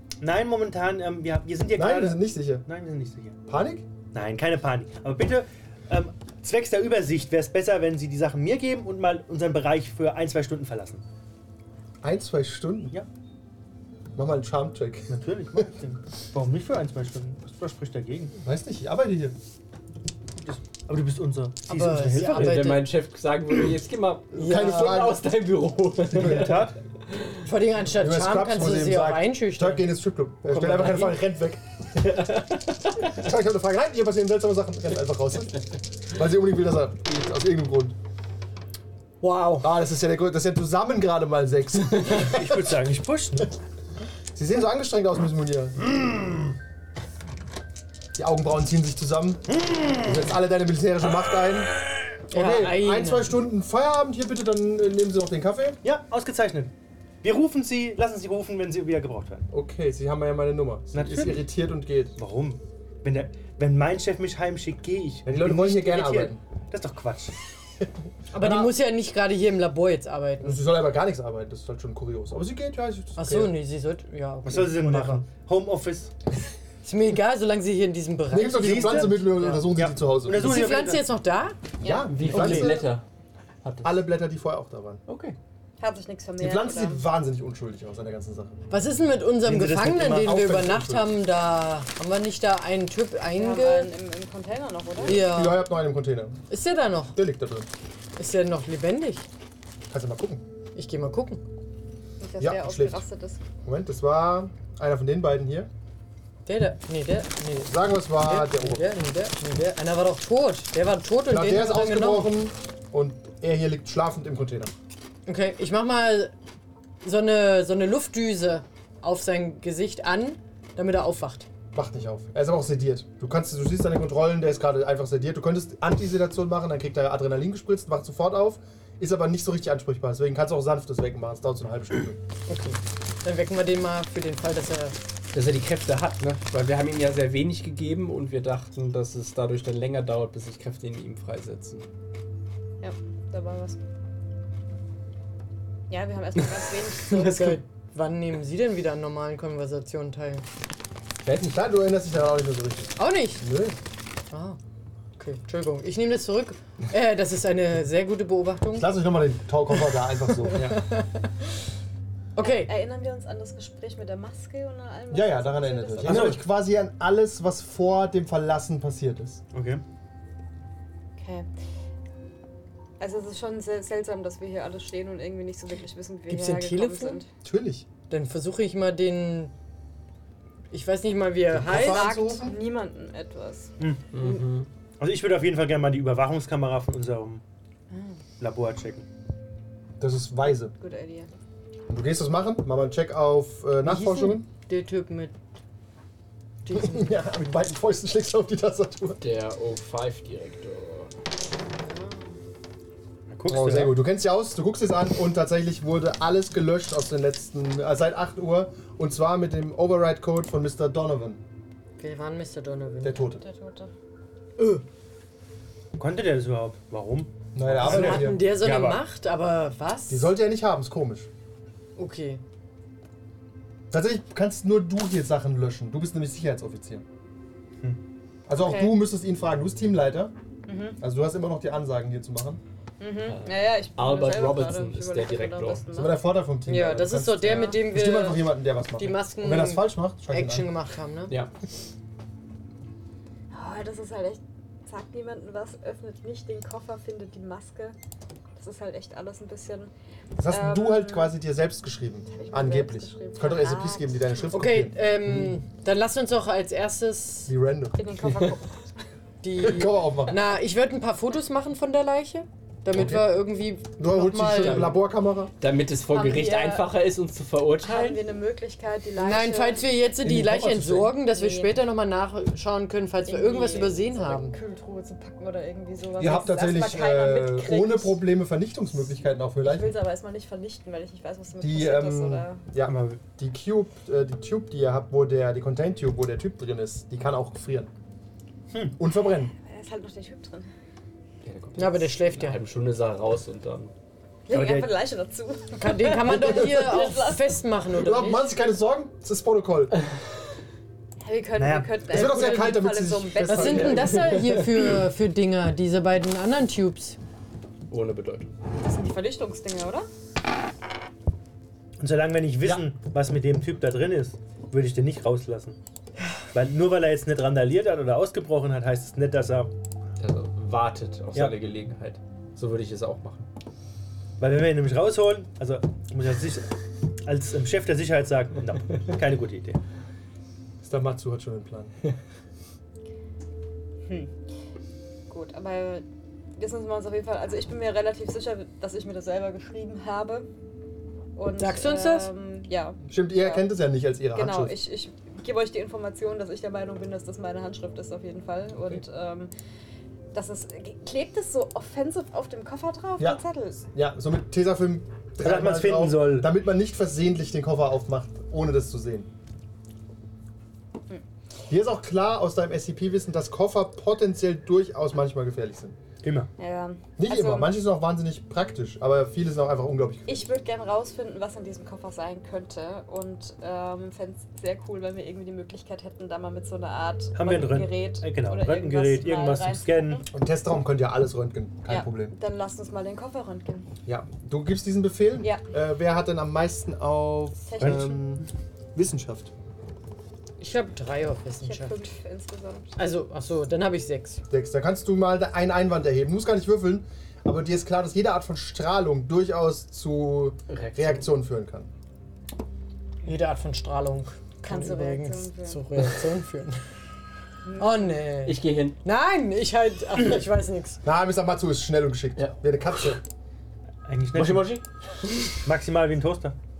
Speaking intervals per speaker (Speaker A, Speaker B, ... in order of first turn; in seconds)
Speaker A: 0.2-3.4, 4.1-11.0, 15.1-18.4, 20.4-22.8, 26.2-26.8, 39.2-39.5, 42.0-43.5, 49.6-50.0, 55.8-59.5, 60.9-61.4, 62.1-67.3, 74.5-76.1, 78.5-79.1, 79.7-81.0, 89.4-90.3, 166.0-166.4, 169.5-169.8, 176.5-177.0, 183.8-184.4, 185.0-187.4, 188.4-189.1, 203.3-203.9, 215.9-219.0, 282.8-283.2, 288.7-289.0, 294.5-294.9, 301.6-302.0, 312.0-315.8, 316.5-319.7, 324.4-326.7, 327.2-329.8, 355.4-356.5, 366.2-366.5, 377.3-380.2, 387.8-388.1, 414.1-414.8, 415.6-416.5
Speaker B: 1.7-2.6, 3.5-3.9, 12.0-12.9, 14.1-15.6, 18.4-19.4, 24.3-25.2, 26.1-26.6, 27.9-31.6, 33.0-38.0, 39.6-42.6, 44.3-45.8, 48.1-55.8, 59.5-62.1, 65.2-66.4, 68.3-68.7, 70.4-73.5, 74.8-75.2, 78.3-80.5, 81.8-82.9, 83.8-85.0, 86.4-88.6, 90.0-91.1, 95.0-96.4, 97.1-97.7, 99.9-100.4, 102.4-103.0, 103.6-105.7, 107.6-108.8, 111.3-114.7, 121.7-132.2, 151.4-153.8, 158.7-160.7, 165.1-169.4, 177.4-177.8, 181.5-182.6, 190.0-190.7, 191.9-194.5, 196.7-199.2, 203.5-211.4, 213.0-213.4, 217.5-218.4, 220.1-221.3, 223.9-227.0, 228.5-230.3, 231.0-232.6, 235.9-240.7, 250.4-255.5, 257.5-258.2, 259.6-260.4, 262.9-263.4, 264.0-265.5, 270.2-271.2, 276.2-279.9, 281.6-287.9, 289.0-289.5, 296.3-296.7, 297.9-299.9, 302.1-304.4, 330.8-331.9, 343.1-344.8, 353.9-359.3, 361.7-366.0, 367.2-370.5, 380.3-382.3, 384.0-389.5, 394.5-401.9, 411.0-413.2
Speaker C: 21.7-22.9, 24.5-24.9, 27.4-29.9, 30.4-31.1, 39.2-39.6, 52.3-53.4, 68.3-70.6, 73.2-75.2, 76.8-79.6, 80.3-81.6, 88.7-93.9, 95.0-95.7, 96.5-97.2, 98.2-99.3, 100.7-101.4, 106.5-112.3, 115.2-116.3, 117.0-121.5, 132.5-135.0, 147.1-150.4, 153.0-153.4, 154.3-154.6, 155.2-158.9, 160.4-161.2, 162.3-162.7, 176.3-177.2, 178.1-179.5, 180.7-182.1, 193.8-195.3, 196.6-197.2, 201.8-202.2, 212.0-213.2, 214.6-214.8, 217.8-220.3, 221.9-222.4, 228.5-229.0, 236.7-241.3, 254.5-257.5, 259.4-265.0, 269.2-274.6, 291.8-292.6, 295.8-298.5, 302.1-302.8, 303.4-307.2, 341.6-342.3, 390.6-392.0, 393.0-394.4, 403.2-406.8, 407.8-411.0
Speaker D: 22.2-27.4, 81.9-83.0, 83.6-84.1, 85.1-85.3, 135.3-141.9, 151.2-151.6, 184.1-184.7, 199.2-201.1, 233.2-235.8, 264.6-265.0, 265.6-268.2, 291.4-293.9, 304.2-304.8, 307.9-308.5, 320.2-323.5, 400.7-401.3, 408.4-409.0, 414.3-415.5
Speaker E: 85.8-87.0, 93.3-95.2, 102.2-103.4, 142.8-143.8, 145.9-147.3, 162.4-166.4, 171.2-171.5, 173.0-177.3, 181.7-183.7, 190.8-191.3, 213.4-213.9, 230.7-231.0, 233.0-236.2, 237.5-237.8, 243.5-247.9, 248.6-249.9, 250.5-251.3, 252.3-254.2, 258.0-258.8, 266.1-266.9, 267.8-269.9, 271.2-271.8, 273.2-278.2, 279.6-282.6, 289.6-290.7, 294.5-297.6, 301.2-304.2, 308.8-310.1, 334.1-334.3, 335.3-336.0, 336.6-340.5, 341.4-343.7, 344.3-349.5, 350.3-353.8, 366.6-367.7, 370.3-380.2, 381.9-383.9, 387.6-388.2, 391.6-392.9, 404.6-406.1, 407.6-408.2